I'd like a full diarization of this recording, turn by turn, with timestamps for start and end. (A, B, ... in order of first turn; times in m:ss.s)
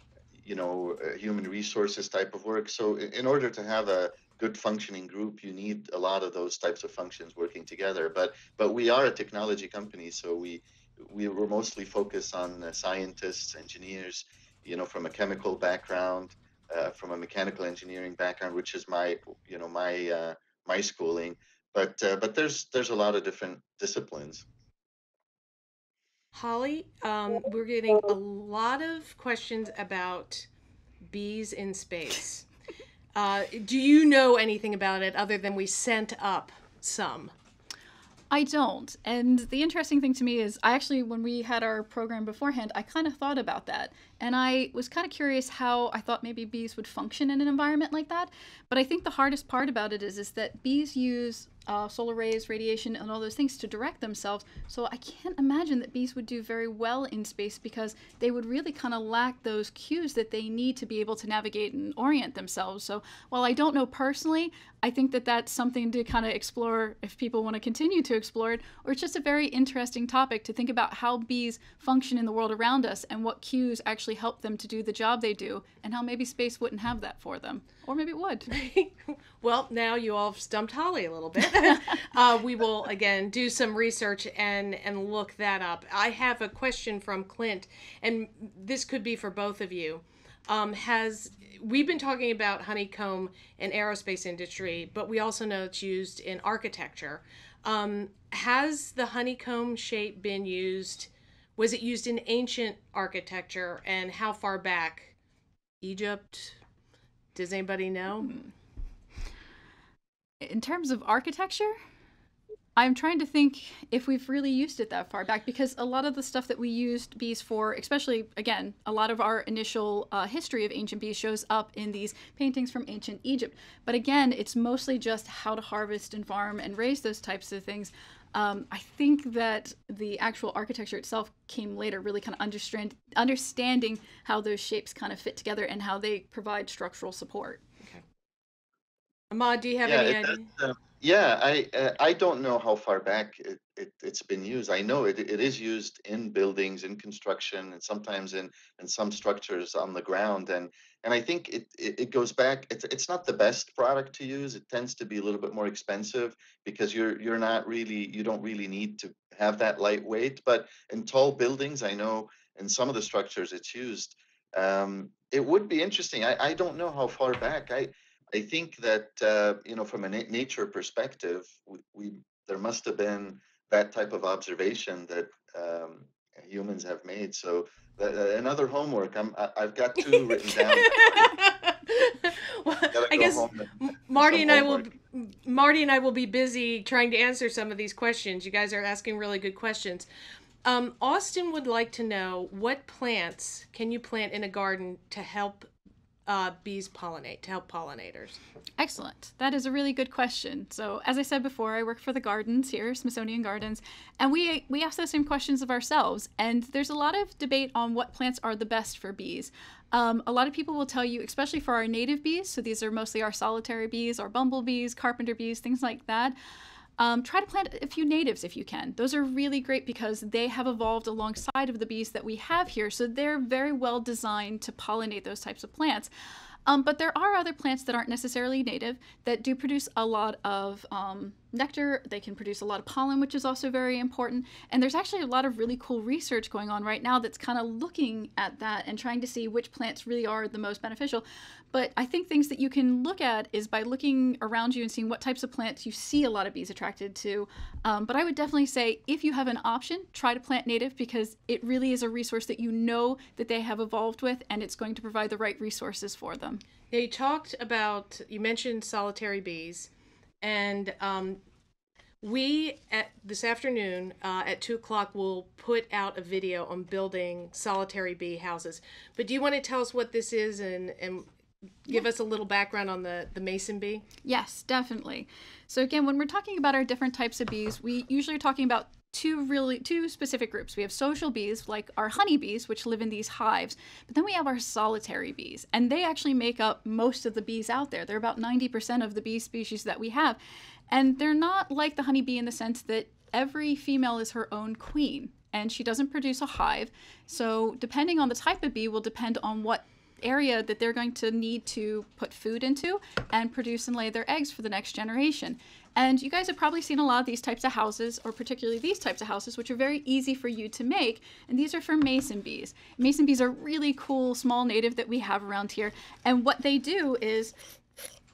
0:00.4-0:24.4 A
0:26.3-0:30.5 B
0:31.1-0:32.5 B
0:33.1-0:37.3 B
0:38.3-1:18.5 C
1:18.5-1:45.1 B
1:45.8-1:46.6 B
1:47.4-1:48.4 B
1:50.4-1:51.8 C
1:52.8-2:17.6 C
2:19.3-2:20.5 B
2:19.8-3:01.3 A
3:00.2-3:10.1 B
3:02.9-3:04.9 A
3:10.6-3:15.7 B
3:16.3-3:18.4 B
3:18.8-3:36.4 C
3:37.0-3:46.1 C
3:46.7-4:16.6 C
4:16.9-4:21.4 B
4:22.2-4:31.3 B
4:31.9-4:34.0 B
4:34.2-4:50.4 C
4:50.9-5:17.5 C